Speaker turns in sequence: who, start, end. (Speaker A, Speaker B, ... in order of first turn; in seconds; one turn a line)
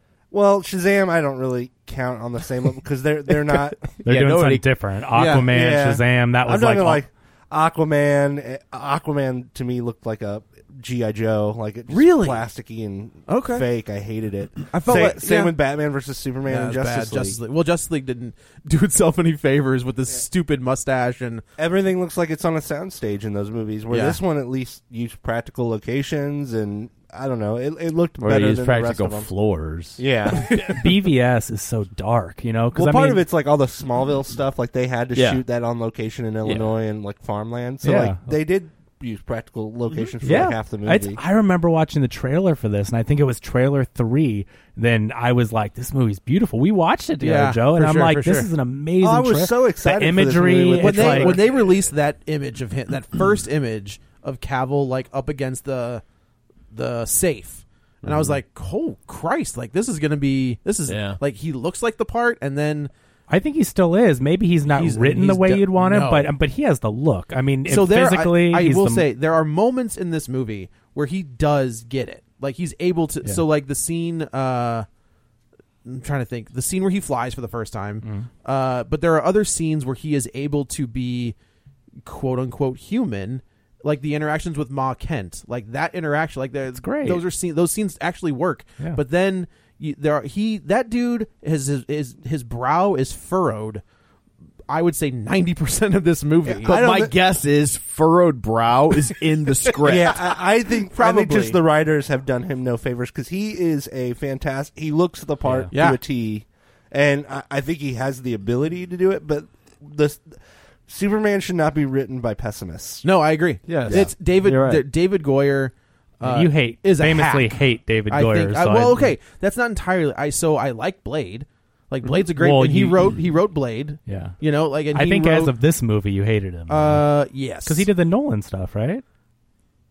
Speaker A: 0.3-3.9
Speaker B: 4.0-4.6
Speaker C: 4.0-7.0
Speaker D: 5.1-5.5
Speaker A: 5.4-17.4
Speaker D: 11.9-12.4
Speaker D: 13.3-13.7
Speaker D: 14.7-15.6
Speaker D: 16.4-21.4
Speaker A: 21.6-29.3
Speaker D: 23.9-24.2
Speaker B: 28.2-30.8
Speaker A: 30.0-30.8
Speaker C: 30.5-33.2
Speaker A: 32.7-41.2
Speaker B: 35.1-35.4
Speaker B: 36.4-36.7
Speaker C: 37.8-38.3
Speaker B: 40.2-40.6
Speaker C: 40.8-51.4
Speaker D: 47.2-48.5
Speaker A: 49.0-51.7
Speaker D: 50.8-56.0
Speaker D: 56.7-62.9
Speaker B: 58.0-58.3
Speaker B: 60.9-61.2
Speaker C: 63.3-69.0
Speaker D: 64.7-66.3
Speaker D: 67.7-74.8
Speaker D: 75.8-81.3
Speaker C: 78.0-78.3
Speaker D: 82.0-93.8
Speaker C: 86.8-87.2
Speaker D: 94.7-96.7
Speaker A: 96.5-97.1
Speaker E: 96.6-100.2
Speaker D: 99.7-100.2
Speaker A: 99.8-110.2
Speaker D: 100.9-101.6
Speaker C: 105.4-105.7
Speaker D: 105.7-106.0
Speaker A: 110.9-113.1
Speaker D: 113.0-125.5
Speaker B: 113.7-114.8
Speaker C: 116.2-119.1
Speaker C: 122.3-123.1
Speaker C: 124.1-124.4
Speaker C: 124.9-127.1
Speaker D: 126.7-127.9
Speaker C: 127.6-129.0